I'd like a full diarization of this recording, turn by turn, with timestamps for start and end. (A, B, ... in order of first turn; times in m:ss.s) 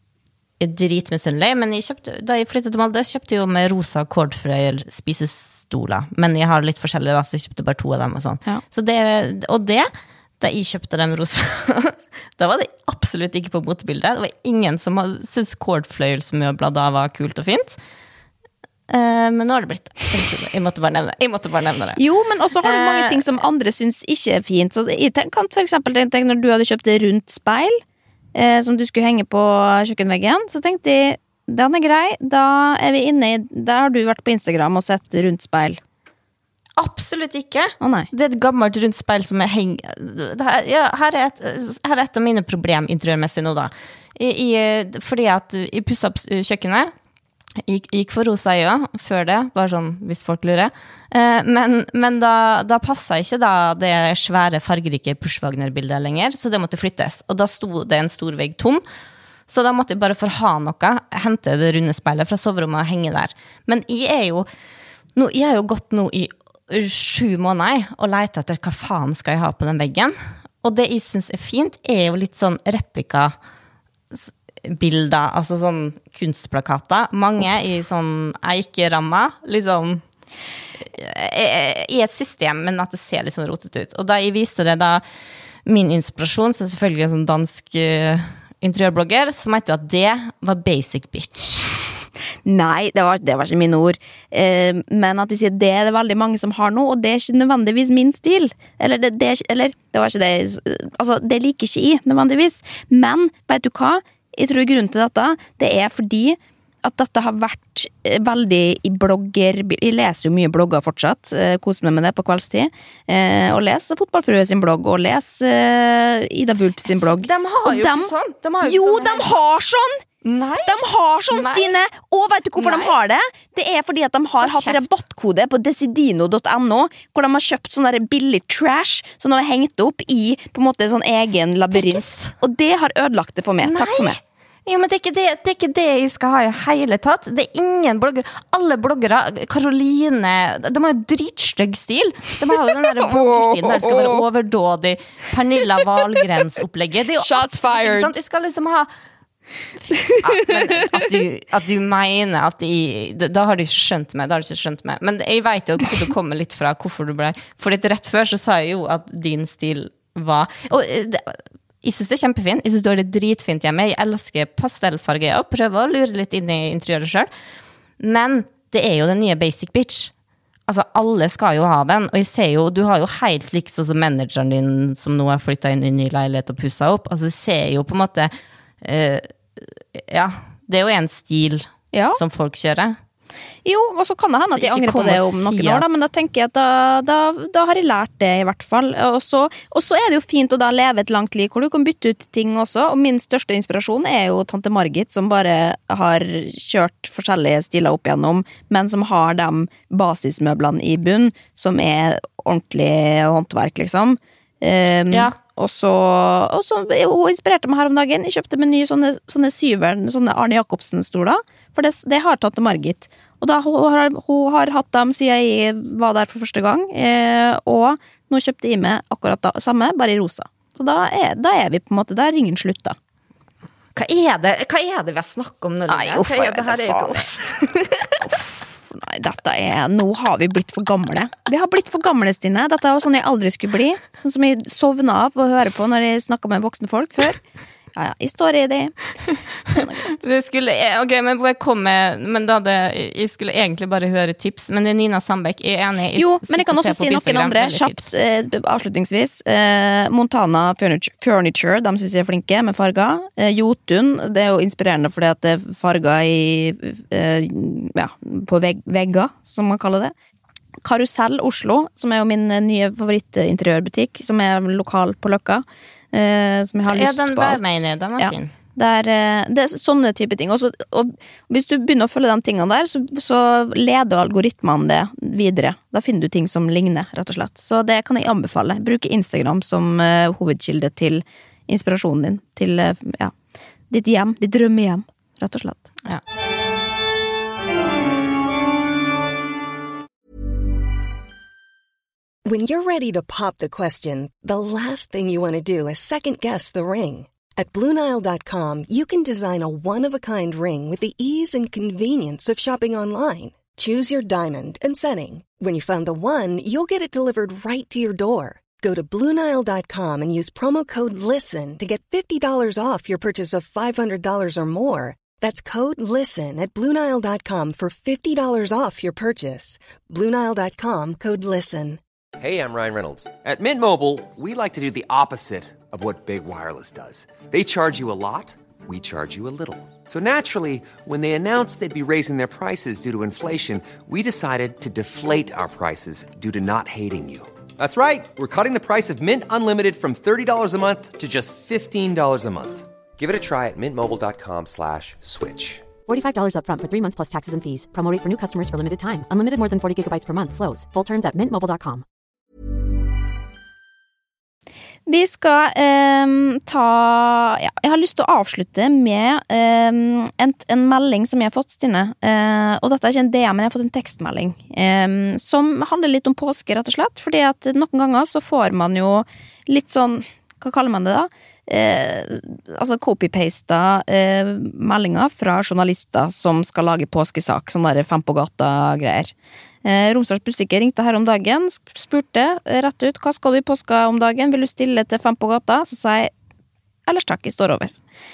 0:00.6-0:17.8 A
0:18.9-0:22.0 A
0:22.0-0:27.8 B
0:22.6-0:23.2 A
0:28.3-0:35.8 B
0:36.8-0:46.9 A
0:37.8-0:38.1 B
0:47.6-0:58.8 A
0:59.5-1:04.5 A
1:05.2-1:13.3 A
1:14.1-1:20.0 A
1:20.8-1:25.0 A
1:25.6-1:31.7 A
1:32.4-2:00.0 B
1:57.2-1:59.3 A
2:00.2-2:01.7 A
2:00.6-2:14.2 B
2:02.6-2:02.9 A
2:04.4-2:04.8 A
2:11.7-2:12.3 A
2:13.6-2:28.9 A
2:22.8-2:24.2 B
2:27.2-2:28.1 B
2:29.8-2:47.3 A
2:30.0-2:30.5 B
2:48.0-2:50.1 A
2:50.7-3:03.0 A
3:01.9-3:02.2 B
3:03.6-3:43.0 B
3:04.5-3:06.0 A
3:25.1-3:25.3 A
3:43.9-3:48.4 A
3:45.9-3:47.3 B
3:48.2-3:57.4 B
3:58.0-3:59.0 B
3:59.6-4:00.1 B
3:59.7-4:08.1 A
4:06.2-4:20.1 B
4:20.8-4:43.3 B
4:26.8-4:28.5 A
4:43.9-4:45.9 B
4:52.4-5:22.0 C
5:22.4-5:45.8 D
5:46.1-5:52.0 E
5:55.1-6:19.3 B
6:19.8-6:26.3 B
6:27.1-6:27.9 B